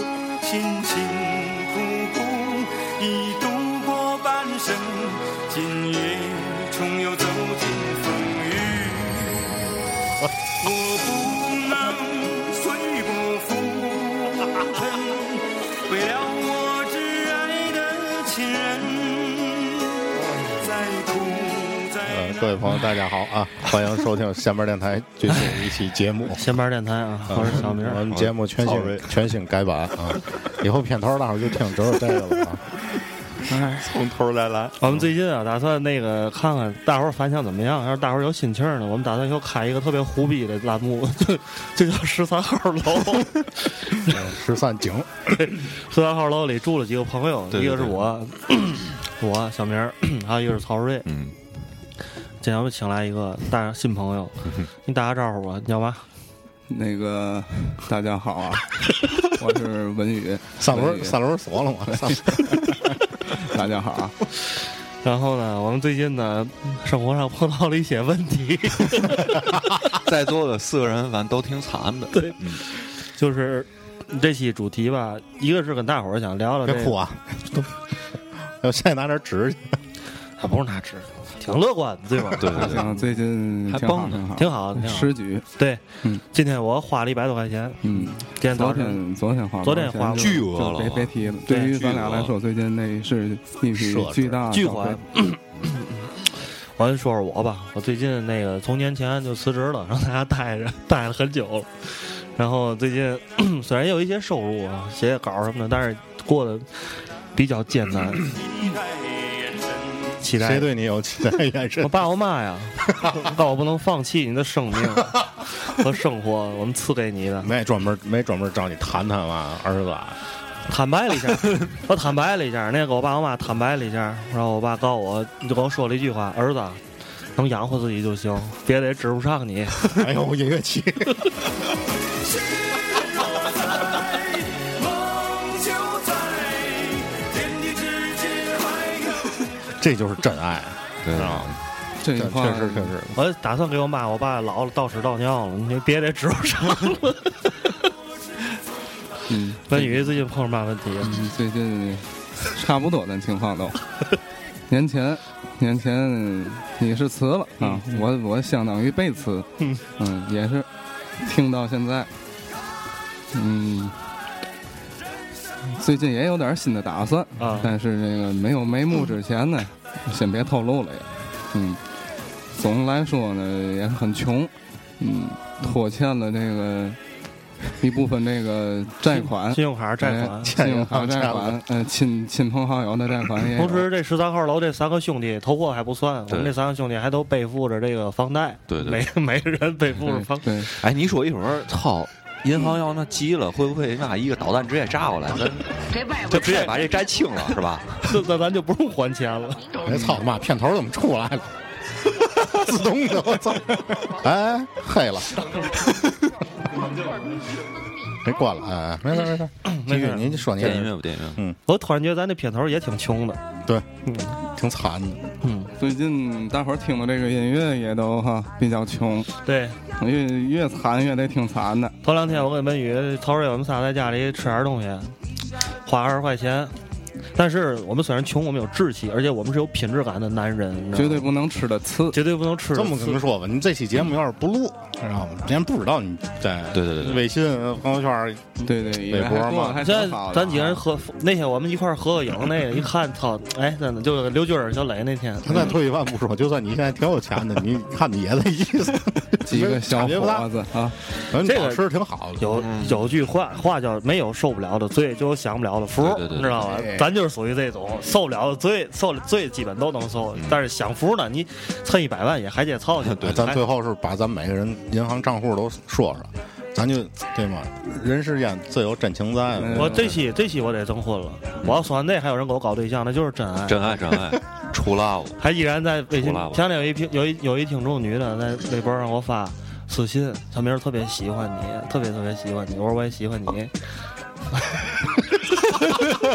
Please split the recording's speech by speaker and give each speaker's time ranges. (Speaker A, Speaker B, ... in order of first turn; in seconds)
Speaker A: 0.4-9.7, 10.6-22.6, 108.2-110.1, 132.2-139.5
Speaker B: 22.1-26.5, 27.3-32.6, 44.0-45.4, 60.6-62.6, 76.6-77.8, 78.4-79.7, 93.7-94.4, 110.4-112.0, 117.4-120.2, 129.8-131.3, 139.7-141.5, 142.1-143.2, 180.4-181.6, 199.8-201.5, 202.1-206.2, 208.2-211.6, 214.4-215.3, 232.7-239.8, 245.4-250.5, 251.3-252.5, 256.6-257.1, 263.2-270.0
Speaker C: 25.3-25.6, 28.0-29.1, 33.5-35.0, 47.5-48.0, 51.0-51.3, 69.8-72.6, 82.3-82.9, 83.7-84.3, 90.2-91.1, 91.8-92.3, 141.0-141.6, 188.7-189.0, 190.7-198.2, 210.6-211.4, 236.7-237.2, 252.5-253.1, 255.9-256.8, 263.0-263.4, 273.7-275.4, 276.1-276.6
Speaker D: 26.3-28.1, 34.8-44.2, 45.3-51.0, 52.4-56.0, 65.0-69.4, 72.1-77.0, 80.4-82.9, 84.3-89.0, 89.6-90.5, 91.5-91.8, 94.5-106.7, 107.3-108.3, 110.2-110.7, 111.8-117.5, 120.7-126.8, 127.4-130.0, 143.2-147.5, 149.7-151.1, 157.6-158.0, 167.4-167.7, 179.1-180.6, 183.5-190.6, 196.2-196.8, 198.1-199.8, 209.7-210.5, 211.7-213.4, 214.1-214.4, 215.4-215.7, 219.4-219.8, 222.0-225.1, 225.8-226.7, 227.3-231.3, 232.1-233.2, 239.8-245.8, 251.3-251.8, 252.4-263.6, 269.7-274.2, 275.4-283.7, 284.5-284.9
Speaker E: 56.7-61.2, 61.9-62.7, 63.2-64.2, 82.5-85.4, 87.8-95.0, 142.0-142.9, 149.3-149.9, 151.0-153.8, 154.7-160.7, 161.2-162.1, 163.3-164.0, 165.7-171.8, 172.5-177.0, 177.7-183.9, 190.4-190.7, 215.8-219.3, 220.0-221.9, 230.9-232.2, 238.6-240.8, 249.4-250.9, 269.6-270.1